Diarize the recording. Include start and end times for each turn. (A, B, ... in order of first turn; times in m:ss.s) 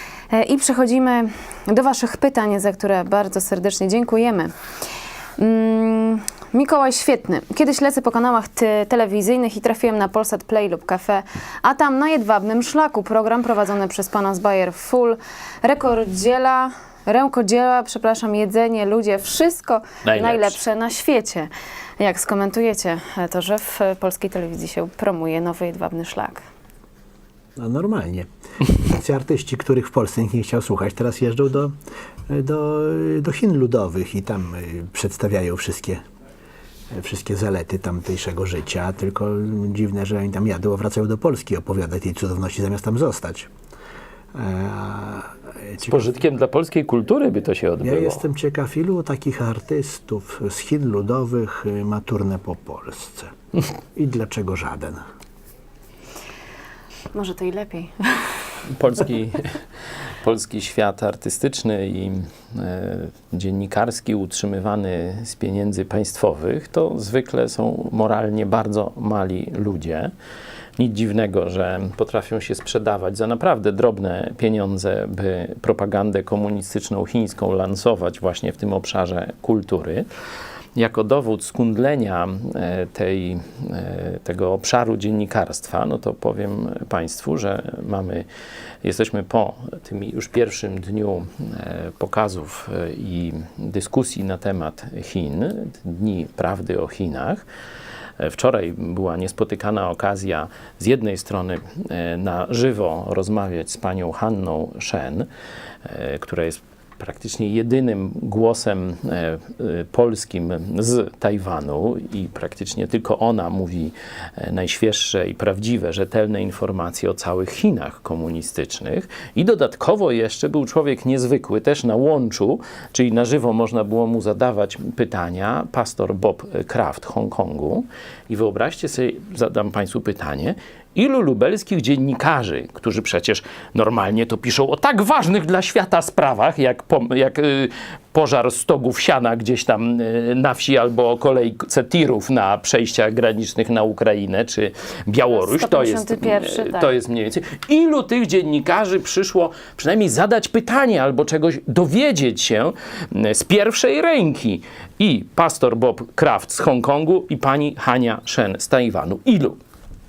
0:00.3-0:04.5 A
0:05.4-0:21.5 A
0:20.0-0:20.6 B
0:22.0-0:26.4 A
0:27.6-0:28.3 C
0:28.8-0:31.8 C
0:32.3-0:36.0 C
0:36.9-0:43.5 C
0:44.3-0:46.2 C
0:45.9-0:48.2 B
0:47.8-0:53.3 C
0:54.0-0:55.0 C
0:57.1-0:58.4 A
0:58.7-0:59.5 B
1:00.2-1:10.1 B
1:10.8-1:20.1 B
1:20.8-1:28.3 B
1:28.8-1:37.4 B
1:38.2-1:45.3 B
1:45.8-2:39.6 B
2:25.3-2:26.9 A